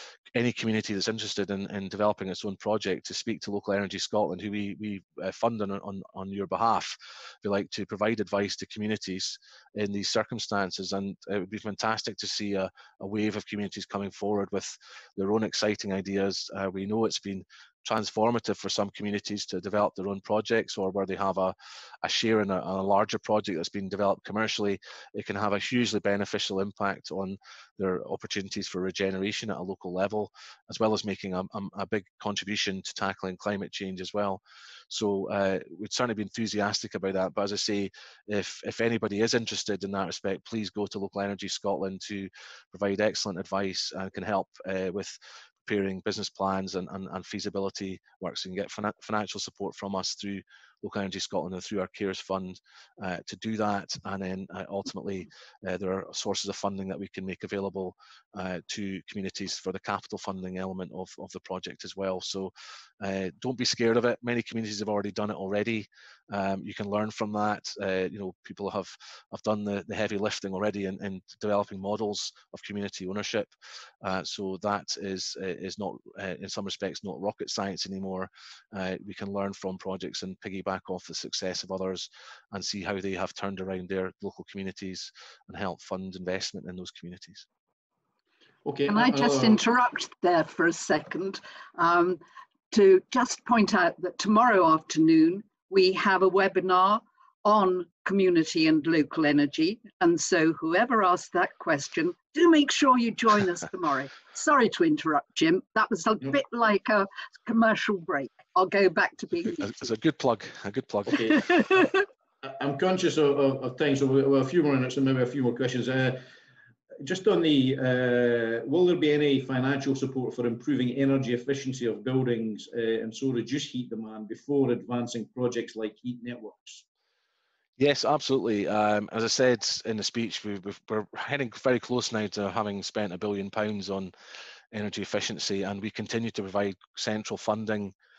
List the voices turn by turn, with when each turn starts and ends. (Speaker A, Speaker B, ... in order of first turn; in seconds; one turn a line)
Speaker A: 0.3-87.5
Speaker B: 88.6-89.6
Speaker C: 88.9-109.7
Speaker A: 109.6-111.5
Speaker B: 111.1-111.4
Speaker B: 112.4-116.2
Speaker B: 117.0-126.8
Speaker A: 127.8-134.1
Speaker A: 134.7-137.9